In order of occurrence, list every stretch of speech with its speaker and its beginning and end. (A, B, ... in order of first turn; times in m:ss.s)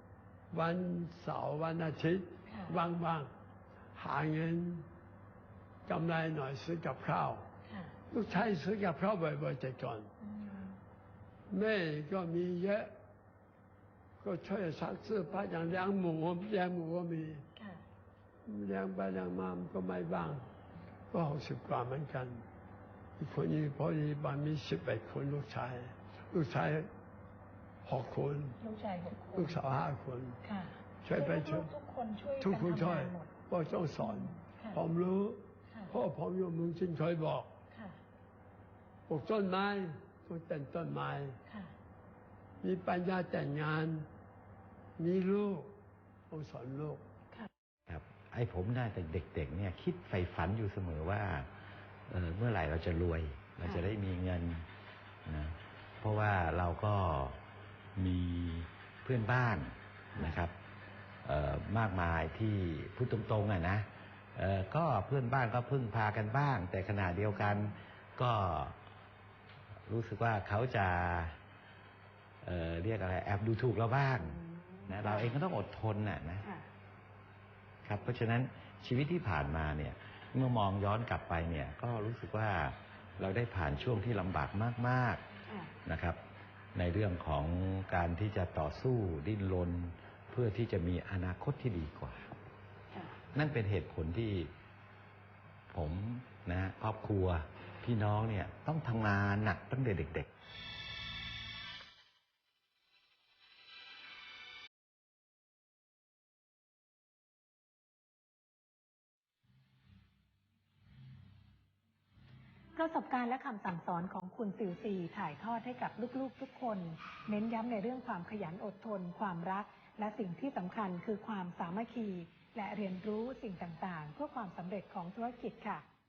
0:00.5-0:03.3 A
0:02.5-0:02.8 B
0:03.9-0:04.9 A
0:05.9-0:07.5 A
0:07.7-0:07.9 B
0:08.1-0:10.1 A
0:10.2-0:10.8 B
0:11.5-0:12.9 A
0:14.2-0:17.5 A
0:17.6-0:17.8 B
0:18.4-0:20.5 A
0:21.1-0:22.4 A
0:23.2-0:26.9 A
0:27.8-0:28.6 A
0:28.6-0:29.6 B
0:29.3-0:30.4 A
0:30.4-0:33.3 B
0:31.0-0:31.7 A
0:32.4-0:37.5 A
0:34.0-0:34.8 B
0:37.7-0:38.0 B
0:39.1-0:41.4 A
0:41.5-0:41.7 B
0:42.6-0:44.1 A
0:45.0-0:45.7 A
0:46.3-0:47.0 A
0:47.9-0:51.5 C
0:52.1-0:54.6 C
0:55.2-0:57.4 C
0:58.0-1:00.5 C
1:01.2-1:08.8 C
1:07.4-1:07.7 B
1:09.9-1:11.4 C
1:12.4-1:16.5 C
1:14.5-1:15.3 B
1:17.8-1:25.2 C
1:25.8-1:26.2 C
1:26.7-1:32.3 C
1:33.3-1:34.5 C
1:35.7-1:40.3 C
1:52.8-2:05.8 B